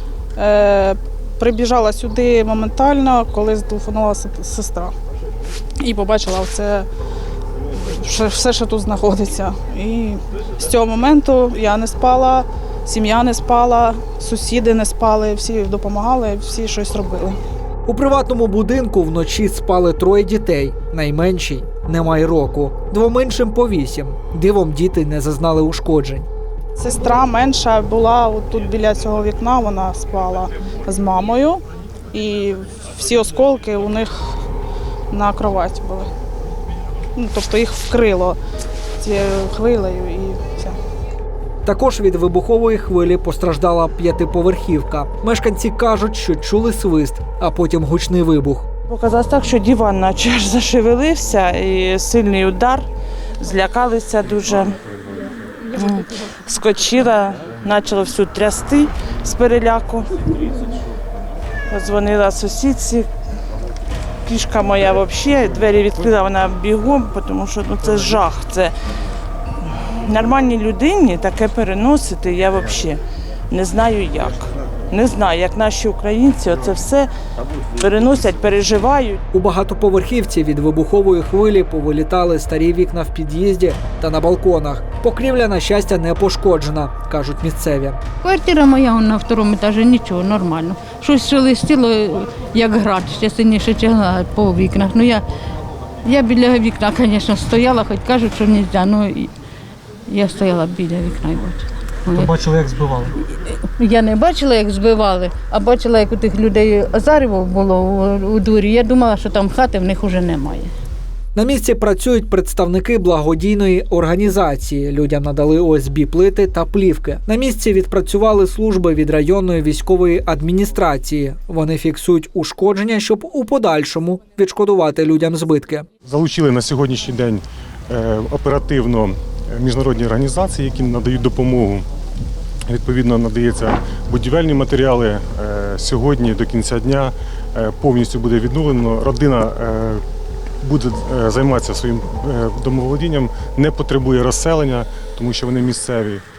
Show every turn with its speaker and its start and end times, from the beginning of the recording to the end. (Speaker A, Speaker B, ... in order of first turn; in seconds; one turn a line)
Speaker A: 0.3-4.9
Speaker A: 5.8-6.9
Speaker A: 7.7-17.4
Speaker B: 17.9-26.3
Speaker A: 26.8-34.1
Speaker A: 35.1-36.1
Speaker A: 37.1-38.4
Speaker A: 39.0-40.8
Speaker B: 41.6-48.7
Speaker C: 48.9-52.9
Speaker C: 53.4-54.8
Speaker C: 55.7-60.3
Speaker C: 61.7-63.1
Speaker C: 64.2-68.7
Speaker C: 69.6-77.1
Speaker C: 77.7-79.2
Speaker B: 79.3-88.0
Speaker D: 88.2-95.2
Speaker D: 96.0-99.3
Speaker D: 100.1-102.4
Speaker B: 102.2-103.1
Speaker D: 103.2-110.7
Speaker B: 111.3-125.9
Speaker E: 126.0-131.8
Speaker E: 132.7-140.0
Speaker E: 140.6-146.2